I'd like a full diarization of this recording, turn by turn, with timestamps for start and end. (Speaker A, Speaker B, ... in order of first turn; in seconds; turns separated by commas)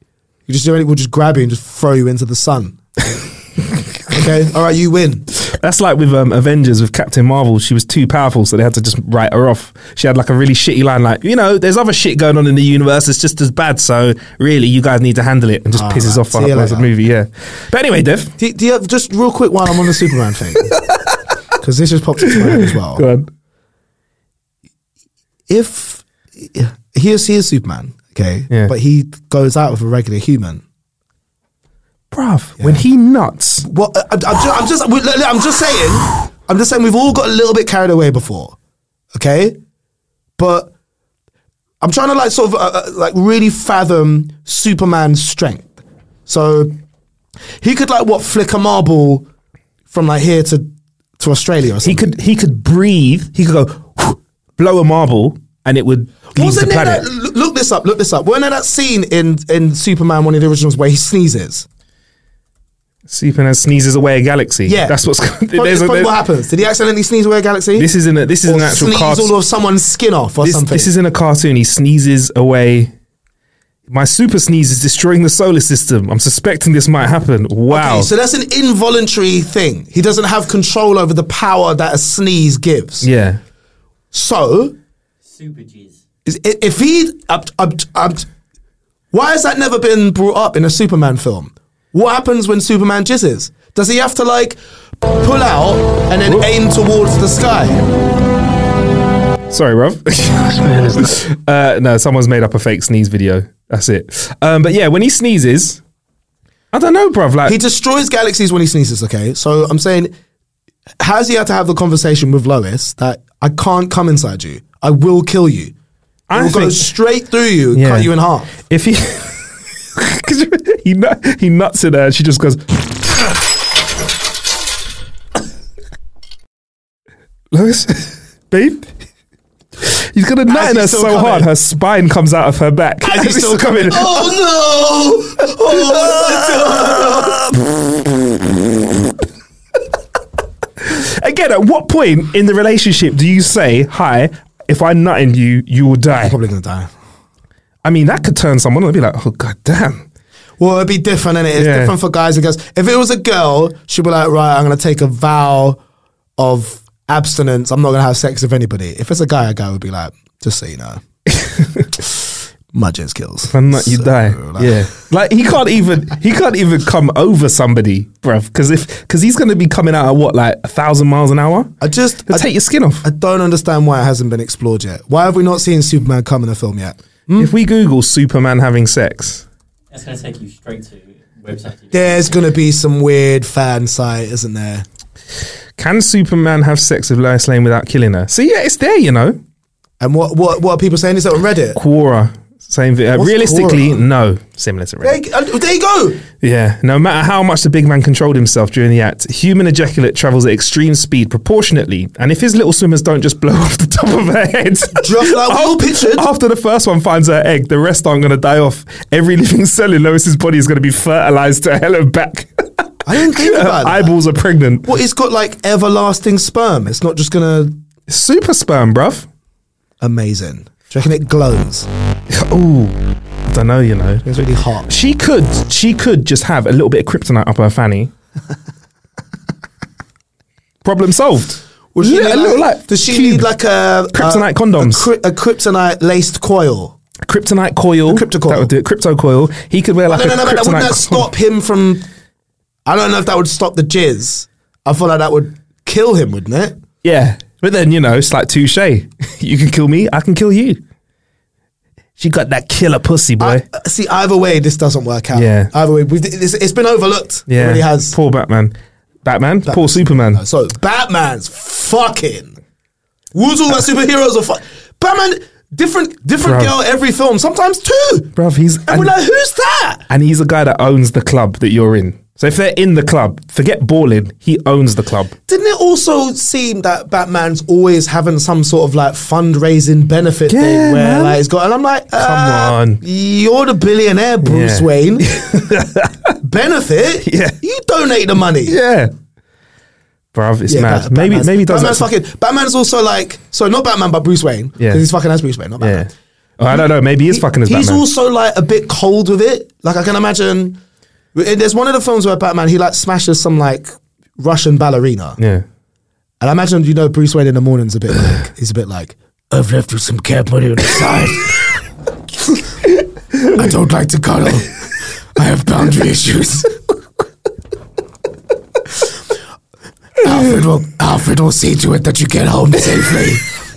Speaker A: 0.5-3.2, Speaker A: 4.1-5.3, Speaker B: 5.4-18.3, Speaker A: 15.7-16.9, Speaker A: 18.4-20.8, Speaker A: 21.6-23.0, Speaker B: 22.6-23.3, Speaker A: 25.5-30.6, Speaker B: 32.1-33.6, Speaker A: 33.6-38.5, Speaker A: 39.1-39.6, Speaker A: 40.4-40.7, Speaker A: 41.8-46.8, Speaker A: 47.6-49.3, Speaker A: 49.9-52.1, Speaker B: 51.8-57.0, Speaker A: 56.3-61.7, Speaker B: 63.1-66.1, Speaker A: 64.6-64.9, Speaker A: 65.5-67.9, Speaker B: 67.8-69.3, Speaker A: 68.5-70.9, Speaker B: 70.4-72.9, Speaker B: 73.9-78.1, Speaker A: 77.7-83.1, Speaker B: 83.0-83.4, Speaker A: 84.1-84.8, Speaker C: 85.3-86.0, Speaker A: 86.2-88.2, Speaker A: 89.1-94.6, Speaker A: 95.1-97.8, Speaker B: 99.5-105.8, Speaker B: 106.7-107.6, Speaker A: 107.5-110.1, Speaker A: 111.0-115.7, Speaker B: 116.3-116.9, Speaker A: 116.3-118.5, Speaker B: 117.7-118.1, Speaker B: 118.7-122.9, Speaker B: 127.5-128.9, Speaker B: 129.8-134.4, Speaker A: 130.5-131.5, Speaker A: 133.0-137.6, Speaker B: 135.7-137.3, Speaker B: 140.8-146.3, Speaker A: 146.2-146.9, Speaker B: 147.8-150.0, Speaker A: 150.6-155.8, Speaker B: 151.6-151.9, Speaker A: 156.4-161.0, Speaker B: 161.3-161.9, Speaker A: 162.7-164.8, Speaker B: 163.5-171.7, Speaker A: 171.8-172.5, Speaker B: 172.3-173.0, Speaker A: 173.0-177.5, Speaker B: 177.4-179.4, Speaker C: 179.9-182.3, Speaker A: 181.9-184.8, Speaker B: 185.8-189.4, Speaker A: 190.0-191.8, Speaker B: 191.8-195.2, Speaker A: 193.1-194.0, Speaker A: 195.0-196.2, Speaker B: 196.4-212.5, Speaker A: 204.9-206.3, Speaker A: 213.0-214.1, Speaker B: 213.1-214.9, Speaker A: 214.8-217.8, Speaker B: 218.1-219.3, Speaker A: 220.0-221.9, Speaker B: 222.3-224.2, Speaker A: 224.2-224.9, Speaker B: 224.9-228.1, Speaker B: 230.8-233.5, Speaker A: 231.9-236.9, Speaker B: 234.1-235.1, Speaker B: 237.2-241.3, Speaker A: 238.1-238.7, Speaker A: 240.1-242.0, Speaker A: 242.8-246.8, Speaker B: 247.0-250.8, Speaker B: 252.2-253.6, Speaker A: 253.4-258.1, Speaker B: 255.3-255.7, Speaker B: 257.5-258.7, Speaker B: 259.2-260.4, Speaker A: 259.6-262.6, Speaker A: 263.3-268.3, Speaker B: 266.4-266.7, Speaker B: 268.4-269.1, Speaker A: 268.9-270.0, Speaker B: 270.1-275.3, Speaker A: 275.5-285.3, Speaker B: 280.5-281.4, Speaker B: 282.1-283.0, Speaker B: 284.4-286.3, Speaker A: 286.4-288.8, Speaker B: 287.2-287.6, Speaker B: 288.6-289.1, Speaker B: 290.3-292.1, Speaker A: 290.7-296.1, Speaker B: 295.8-298.0, Speaker A: 296.7-300.8, Speaker A: 301.3-305.4, Speaker B: 305.4-305.6, Speaker A: 306.4-311.6, Speaker A: 313.5-314.7, Speaker A: 315.4-316.7, Speaker A: 320.2-323.4